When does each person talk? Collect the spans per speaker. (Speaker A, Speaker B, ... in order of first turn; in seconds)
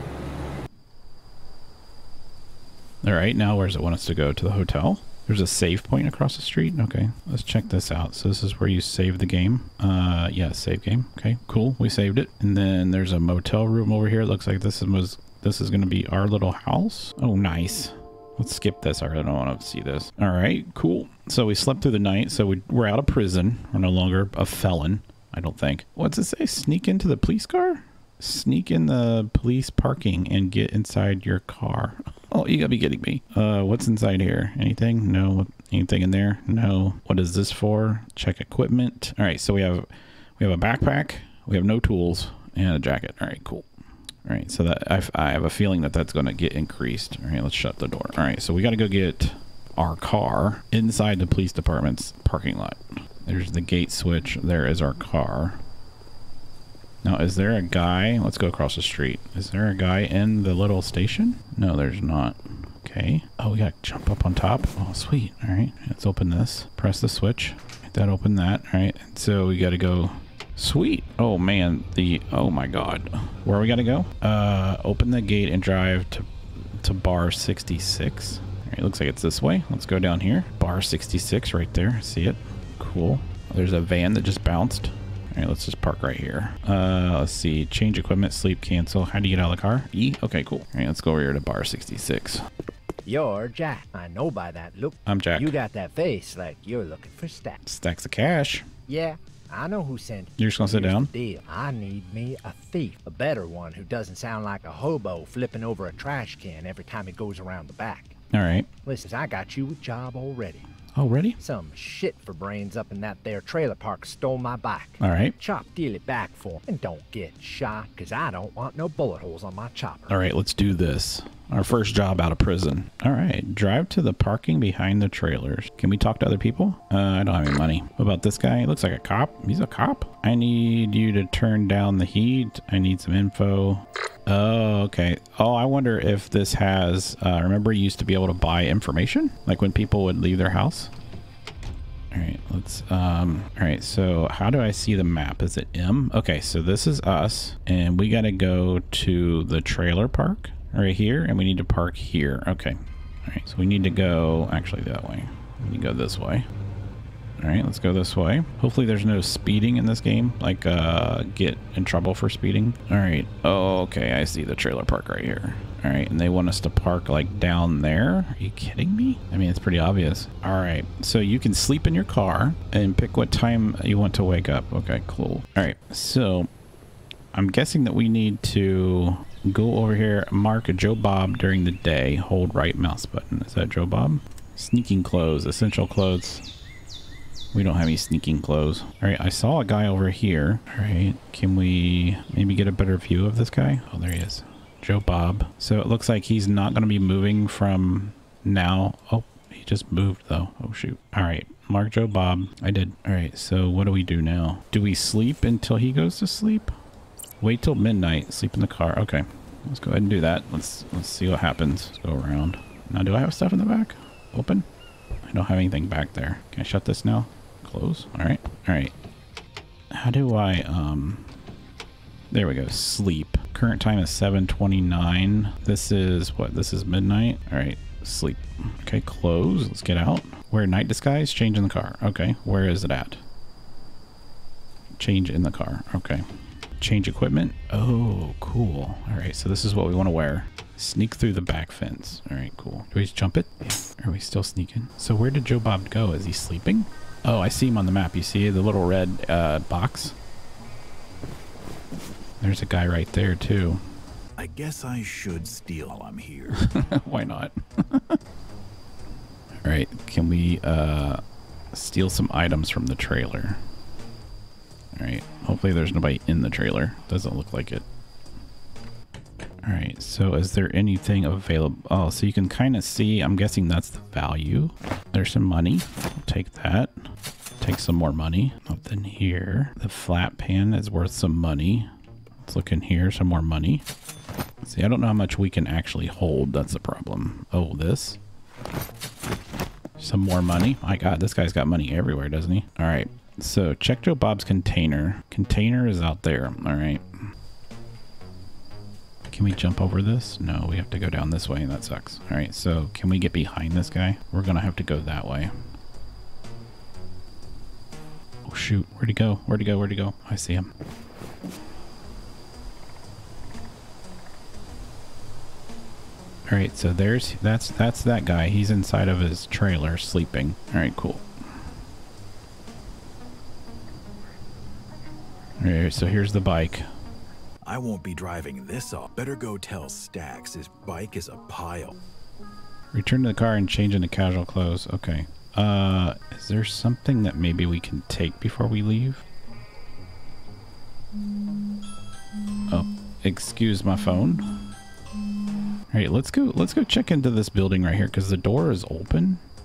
Speaker A: 3.0-39.9, 40.4-43.7, 44.2-55.6, 57.0-76.3, 76.8-92.4, 95.0-95.5, 97.6-98.7, 100.4-101.1, 108.3-108.7, 110.9-111.4, 115.0-115.3, 120.1-140.9, 142.1-156.4, 157.4-176.5, 177.3-186.4, 187.5-206.8, 207.4-214.7, 215.3-218.9, 219.9-221.3, 222.3-233.2, 235.0-236.2, 236.8-250.1, 252.4-253.8, 256.5-258.2, 259.6-261.2, 261.7-263.6, 264.9-267.8, 269.6-277.0, 277.6-281.9, 282.4-283.8, 284.6-288.2, 290.0-297.0, 299.3-305.5, 308.4-310.7, 316.5-321.2, 325.6-326.9, 332.9-339.2, 342.7-344.5, 345.9-349.4
Speaker B: 93.0-97.6, 98.9-108.1, 108.8-110.7, 111.4-120.2
Speaker C: 254.4-256.6, 327.6-331.9